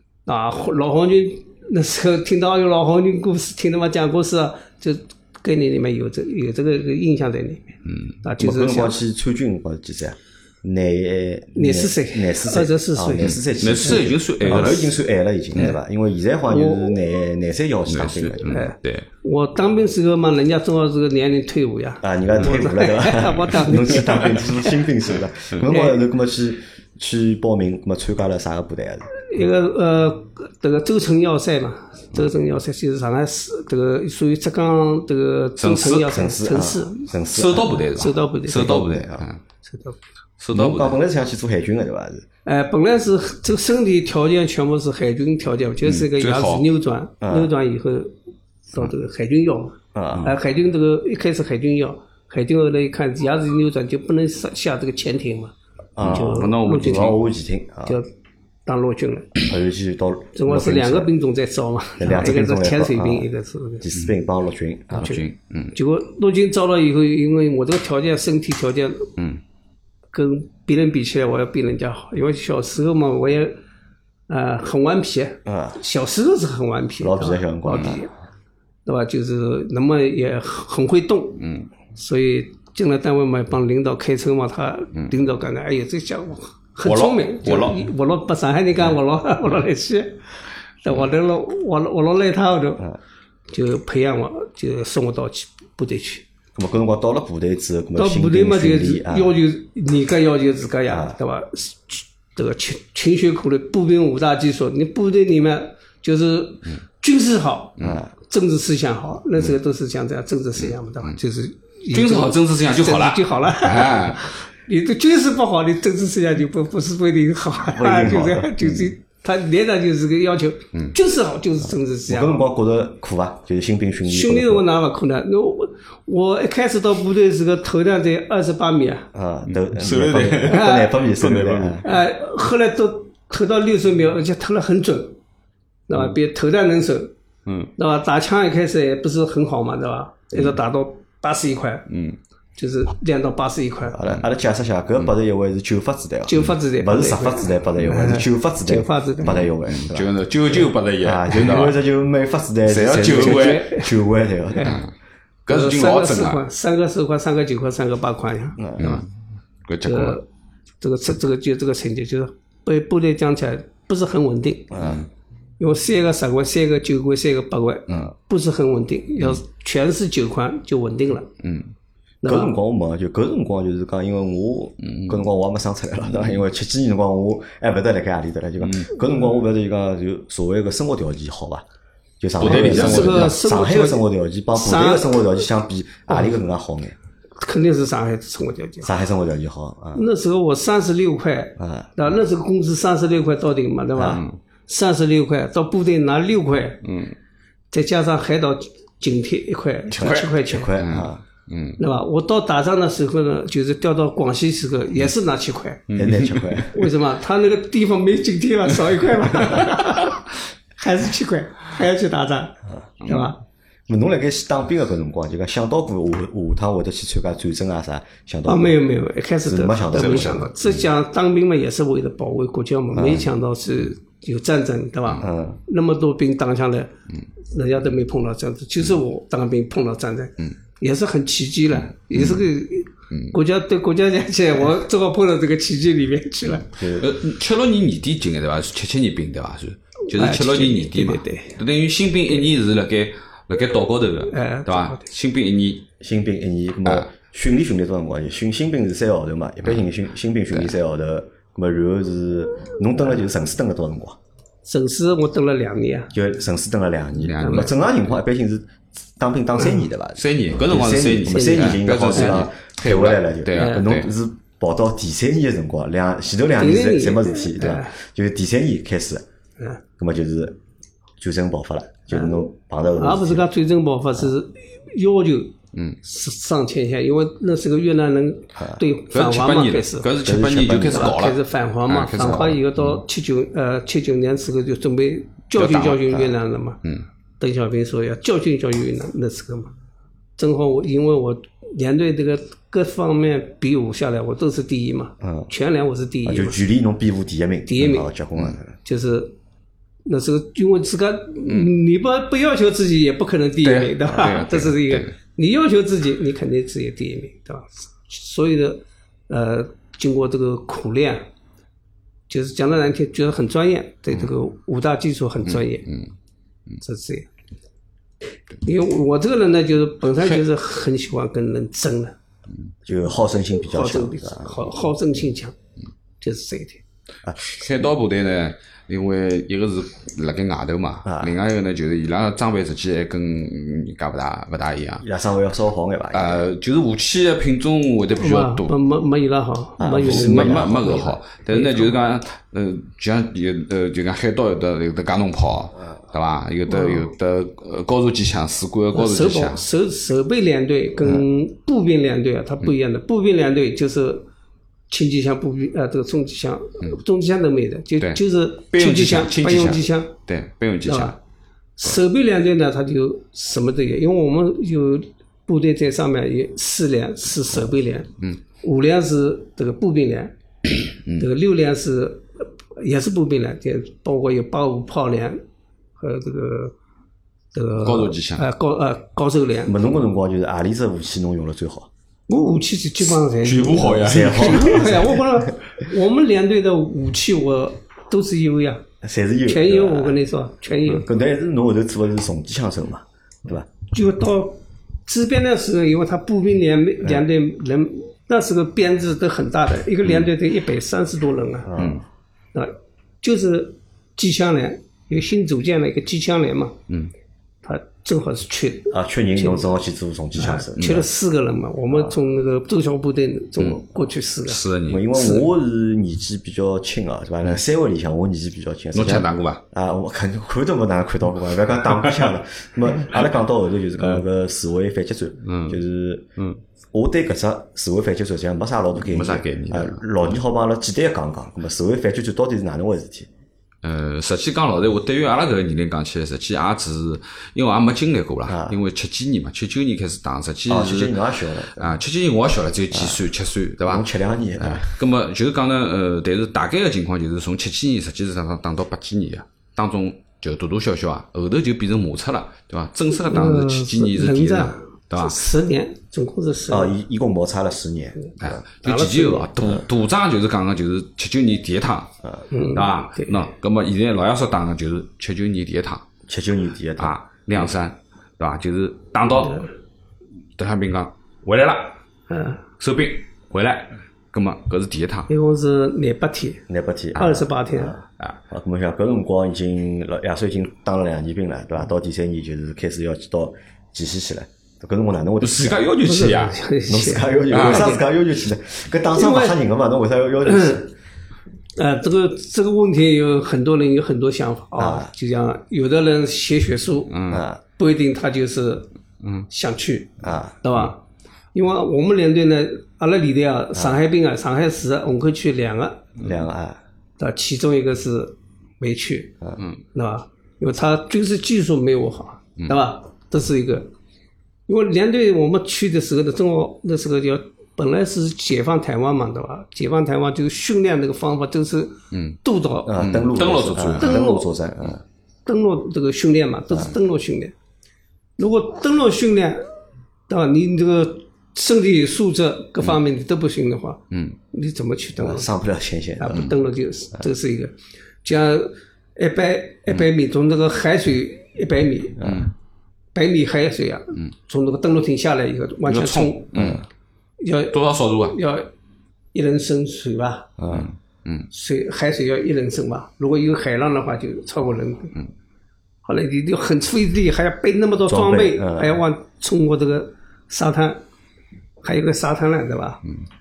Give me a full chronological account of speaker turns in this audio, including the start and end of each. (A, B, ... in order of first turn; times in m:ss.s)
0:00.3-0:09.0 A
0:07.9-0:08.2 B
0:08.4-0:18.4 C
0:11.5-0:14.9 A
0:13.2-0:15.0 B
0:16.5-0:16.9 A
0:17.9-0:19.1 B
0:18.5-0:24.8 A
0:22.0-0:29.1 C
0:25.6-0:26.0 A
0:29.2-0:37.1 A
0:35.6-0:36.2 B
0:36.1-0:37.8 C
0:37.3-0:39.4 B
0:37.6-0:38.8 A
0:38.5-0:39.3 C
0:39.6-0:40.0 A
0:40.4-0:41.0 B
0:40.5-0:42.2 C
0:42.4-0:48.2 A
0:45.8-0:46.6 B
0:47.2-0:47.5 C
0:48.7-0:57.2 A
0:49.9-0:50.3 C
0:56.0-0:58.0 C
0:56.0-0:57.2 B
0:58.6-0:59.5 A
0:59.5-1:01.1 C
1:00.4-1:03.9 A
1:02.0-1:03.3 C
1:03.8-1:05.2 C
1:04.9-1:05.8 B
1:05.7-1:09.1 A
1:10.1-1:13.6 A
1:14.3-1:18.1 A
1:15.5-1:15.8 C
1:17.0-1:18.1 C
1:18.9-1:21.4 A
1:21.4-1:21.7 B
1:21.9-1:30.3 A
1:26.8-1:27.8 B
1:30.8-1:32.9 A
1:33.5-1:36.2 A
1:36.6-1:39.4 C
1:38.0-2:02.4 A
1:40.9-1:41.2 C
1:47.8-1:48.1 C
1:50.6-1:51.2 B
1:51.9-1:54.3 B
1:57.7-1:58.5 C
2:02.1-2:04.6 C
2:04.1-2:09.1 A
2:09.1-2:11.9 C
2:09.5-2:11.8 B
2:10.5-2:10.9 A
2:11.8-2:15.2 A
2:15.9-2:17.1 A
2:17.5-2:17.7 B
2:17.8-2:21.8 A
2:21.9-2:22.2 B
2:22.6-2:24.0 A
2:23.9-2:34.8 C
2:26.3-2:29.4 A
2:29.6-2:31.8 B
2:32.6-2:33.7 B
2:33.1-2:33.9 A
2:34.5-2:34.8 A
2:34.6-2:34.9 B
2:35.5-2:36.4 B
2:35.5-2:39.0 A
2:38.6-2:39.0 C
2:38.8-2:39.1 B
2:39.6-2:40.2 B
2:39.8-2:40.2 A
2:40.8-2:44.8 A
2:44.7-2:45.0 C
2:44.8-2:45.0 B
2:45.6-2:51.3 A
2:51.4-2:51.7 B
2:52.2-2:52.5 A
2:52.2-3:01.6 C
2:54.8-2:55.3 B
2:56.1-2:56.4 B
2:58.6-2:58.9 B
3:02.2-3:07.0 C
3:02.4-3:03.4 B
3:02.4-3:05.2 A
3:06.1-3:06.4 A
3:07.4-3:08.9 A
3:08.8-3:10.0 C
3:09.9-3:16.8 A
3:11.6-3:11.9 C
3:14.0-3:14.2 C
3:14.1-3:14.4 B
3:16.8-3:17.1 B
3:17.7-3:20.7 A
3:20.0-3:21.8 B
3:20.0-3:21.2 C
3:21.8-3:25.8 A
3:25.9-3:26.7 B
3:25.9-3:26.9 C
3:26.7-3:33.4 A
3:33.0-3:33.3 B
3:33.9-3:38.8 C
3:38.5-3:46.9 A
3:39.4-3:40.5 C
3:40.0-3:40.4 B
3:42.9-3:43.3 C
3:45.2-3:45.6 C
3:47.5-3:56.7 A
3:51.8-3:52.5 B
3:53.1-3:53.4 B
3:56.8-3:57.1 C
3:56.8-4:05.9 B
4:00.1-4:01.6 A
4:04.3-4:05.0 A
4:06.0-4:14.2 C
4:14.6-4:16.1 A
4:16.1-4:29.2 C
4:17.2-4:17.8 B
4:17.4-4:17.7 A
4:20.2-4:24.1 B
4:21.3-4:22.4 A
4:23.5-4:23.8 A
4:26.6-4:27.9 A
4:30.0-4:30.6 C
4:31.2-4:33.5 C
4:32.1-4:40.1 A
4:35.7-4:36.0 B
4:38.6-4:38.8 C
4:39.1-4:43.0 B
4:40.2-4:41.1 C
4:40.8-4:46.8 A
4:42.2-4:42.5 C
4:45.5-4:46.2 B
4:47.4-4:49.7 A
4:50.4-4:56.6 A
4:55.2-4:55.5 C
4:56.2-4:58.8 C
4:57.7-4:58.1 A
4:58.8-4:59.4 A
5:00.0-5:11.2 A
5:01.4-5:01.7 B
5:03.6-5:05.1 B
5:12.3-5:15.9 A
5:15.5-5:16.1 B
5:16.8-5:17.3 A
5:18.6-5:22.1 A
5:22.8-5:24.7 C
5:23.6-5:25.5 A
5:26.2-5:26.8 A
5:27.4-5:35.0 B
5:31.0-5:31.4 C
5:35.0-5:36.4 C
5:36.1-5:38.7 B
5:38.2-5:41.9 A
5:39.8-5:41.0 C
5:40.0-5:49.6 B
5:46.7-5:47.1 A
5:48.9-5:54.3 A
5:54.9-6:00.1 A
5:58.0-6:01.2 B
6:00.8-6:01.2 A
6:01.8-6:15.4 A
6:16.0-6:16.7 A
6:17.5-6:19.8 A
6:17.8-6:18.5 B
6:19.6-6:21.9 C
6:22.3-6:28.8 A
6:23.4-6:25.0 B
6:23.9-6:25.3 C
6:29.0-6:30.2 C
6:29.5-6:31.1 A
6:30.9-6:33.7 C
6:33.9-6:41.7 A
6:41.6-6:42.0 C
6:42.5-6:46.8 A
6:47.6-6:49.7 A
6:48.9-6:51.0 C
6:50.4-6:55.5 A
6:50.8-6:51.0 B
6:54.4-6:55.0 B
6:54.9-7:06.3 C
6:58.9-6:59.6 B
7:05.4-7:05.8 B
7:06.9-7:13.3 C
7:09.1-7:10.1 B
7:13.8-7:35.4 B
7:18.5-7:18.8 C
7:20.7-7:21.9 C
7:22.9-7:23.2 C
7:23.8-7:25.0 C
7:33.1-7:37.0 A
7:36.7-7:38.6 C
7:38.4-7:46.1 B
7:38.8-7:39.5 A
7:42.5-7:43.5 A
7:46.3-7:47.1 C
7:47.0-7:49.6 B
7:50.6-7:52.0 B
7:52.3-7:52.6 A
7:52.8-7:55.3 B
7:55.3-7:56.6 A
7:56.7-8:05.8 C
7:57.2-7:58.0 A
8:05.4-8:06.6 B
8:06.0-8:08.0 A
8:06.9-8:10.9 C
8:07.5-8:07.9 B
8:09.1-8:09.6 A
8:10.4-8:10.9 A
8:11.8-8:18.9 A
8:14.8-8:15.1 C
8:17.1-8:17.4 B
8:17.3-8:17.6 C
8:19.5-8:21.0 A
8:20.2-8:20.6 C
8:21.5-8:26.1 A
8:26.2-8:26.8 C
8:27.2-8:29.4 A
8:29.9-8:33.9 A
8:34.7-8:43.1 A
8:42.1-8:42.4 B
8:42.9-8:45.0 C
8:42.9-8:44.2 B
8:44.0-8:44.5 A
8:45.4-8:47.5 A
8:48.4-8:49.6 A
8:50.3-8:55.5 A
8:55.2-8:56.5 C
8:56.2-9:02.4 A
9:02.2-9:02.5 C
9:02.2-9:02.5 B
9:03.1-9:06.5 A
9:05.9-9:06.8 B
9:06.6-9:06.8 C
9:07.4-9:08.7 A
9:07.7-9:08.4 B
9:09.3-9:10.5 A
9:10.6-9:10.9 C
9:10.7-9:11.5 B
9:11.5-9:15.1 A
9:16.0-9:21.0 A
9:18.1-9:19.0 C
9:21.8-9:23.0 A